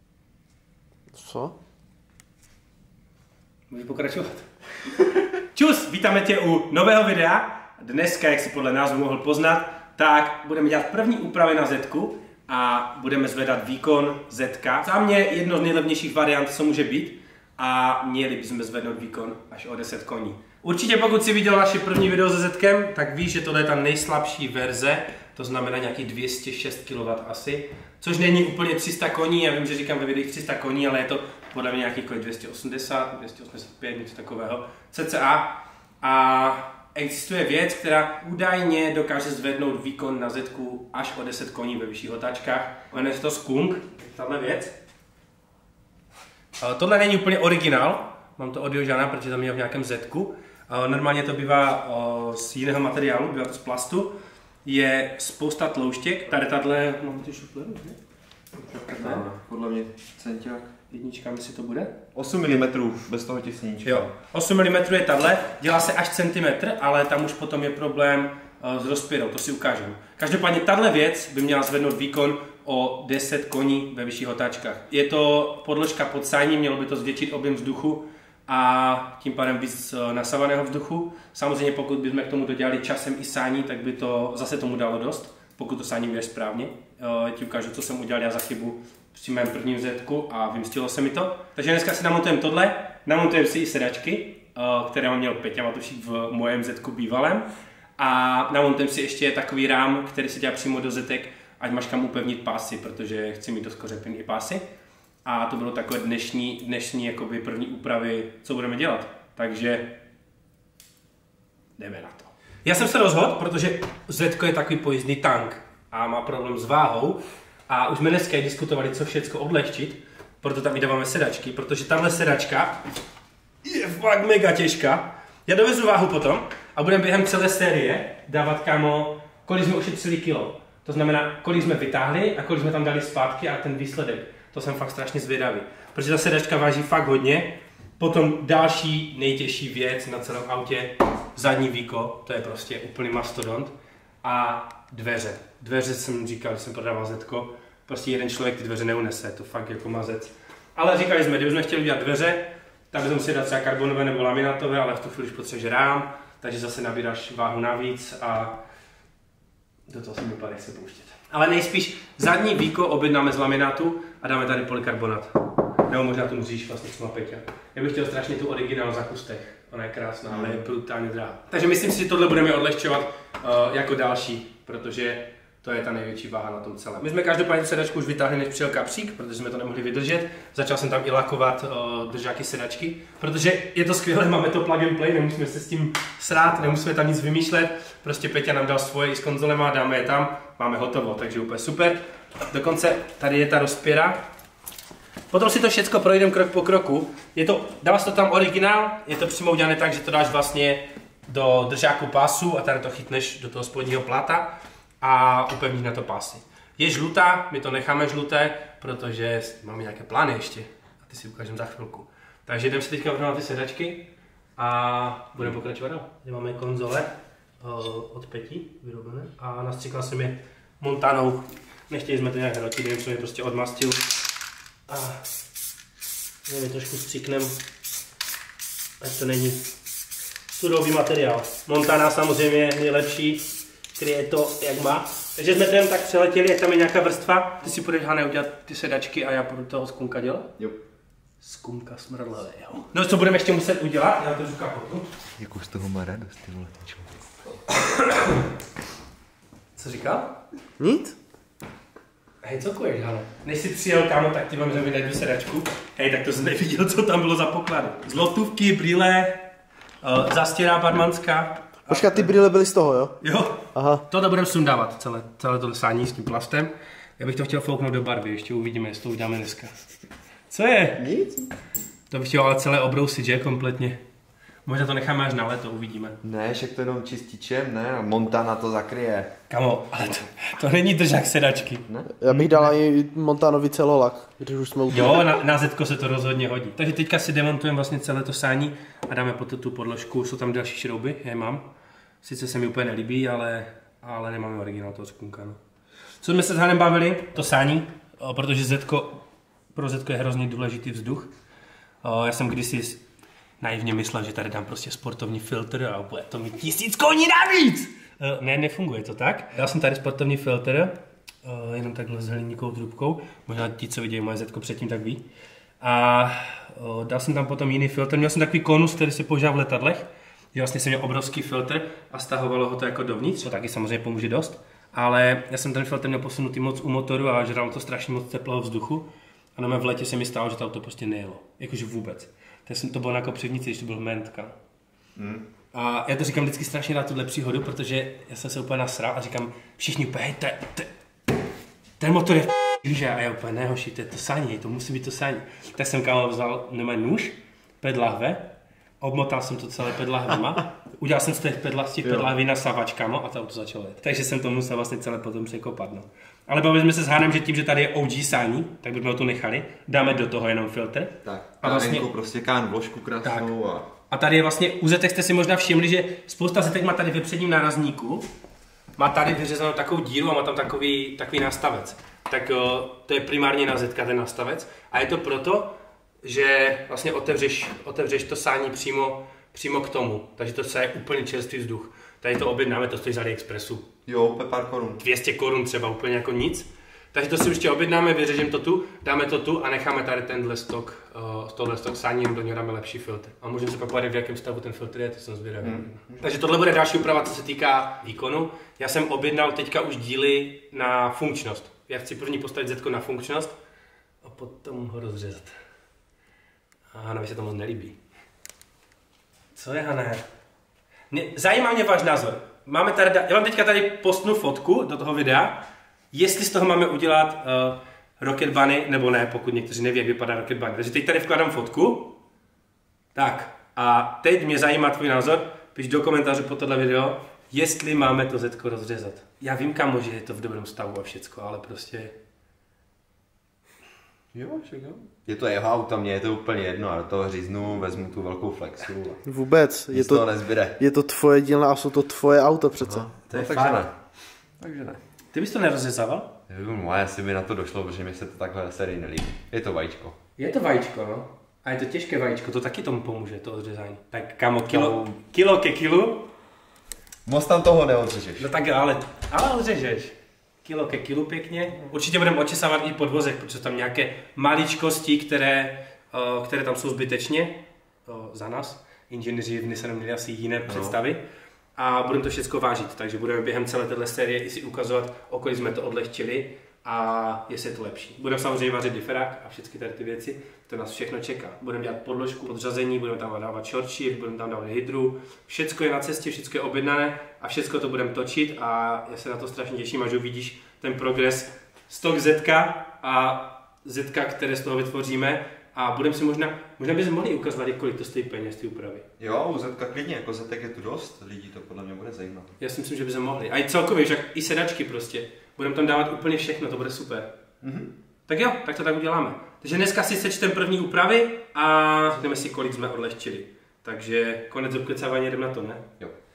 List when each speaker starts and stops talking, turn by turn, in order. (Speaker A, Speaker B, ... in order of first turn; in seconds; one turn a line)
Speaker A: 1.1-1.5
Speaker B: 3.7-4.5
Speaker B: 5.5-44.7
Speaker B: 46.6-58.0
Speaker C: 58.7-60.7
Speaker B: 58.9-59.2
Speaker B: 60.9-62.0
Speaker C: 62.1-64.1
Speaker B: 63.8-104.6
Speaker B: 105.2-110.0
Speaker B: 111.8-122.8
Speaker B: 123.6-158.6
Speaker B: 159.9-194.2
Speaker C: 170.3-170.6
Speaker B: 195.3-224.0
Speaker B: 224.9-225.2
Speaker B: 226.4-227.6
Speaker B: 229.0-229.7
Speaker B: 230.6-240.5
Speaker B: 241.4-245.1
Speaker C: 245.4-247.1
Speaker B: 247.7-248.4
Speaker B: 249.8-250.4
Speaker A: 250.8-251.2
Speaker B: 252.4-259.5
Speaker B: 260.0-262.3
Speaker A: 261.9-263.1
Speaker B: 263.2-269.7
Speaker A: 263.7-264.0
Speaker B: 270.5-271.0
Speaker C: 271.0-271.5
Speaker B: 272.1-274.0
Speaker B: 274.6-276.2
Speaker C: 276.2-279.3
Speaker B: 279.5-282.7
Speaker A: 282.2-285.2
Speaker B: 284.9-291.6
Speaker B: 292.2-295.6
Speaker B: 296.2-299.2
Speaker B: 299.7-301.3
Speaker B: 302.0-303.0
Speaker B: 303.6-315.2
Speaker B: 315.8-334.6
Speaker C: 335.1-335.4
Speaker B: 335.7-340.9
Speaker B: 342.0-362.1
Speaker C: 361.2-363.9
Speaker B: 363.2-363.5
Speaker B: 364.1-368.3
Speaker B: 369.0-383.9
Speaker C: 384.1-385.0
Speaker B: 385.0-403.5
Speaker C: 395.6-396.3
Speaker B: 404.2-405.5
Speaker B: 406.9-408.0
Speaker B: 409.5-410.2
Speaker B: 411.1-422.2
Speaker B: 423.1-432.1
Speaker C: 434.3-439.2
Speaker A: 439.2-443.1
Speaker C: 439.9-440.8
Speaker C: 442.8-443.9
Speaker B: 443.3-443.8
Speaker C: 444.6-445.0
Speaker B: 445.3-446.3
Speaker C: 446.5-450.2
Speaker B: 450.4-456.3
Speaker C: 454.7-455.2
Speaker C: 457.2-458.5
Speaker B: 458.4-471.2
Speaker C: 470.6-471.0
Speaker B: 471.8-499.0
Speaker C: 499.2-502.5
Speaker B: 502.6-507.3
Speaker C: 507.6-507.9
Speaker B: 508.3-515.8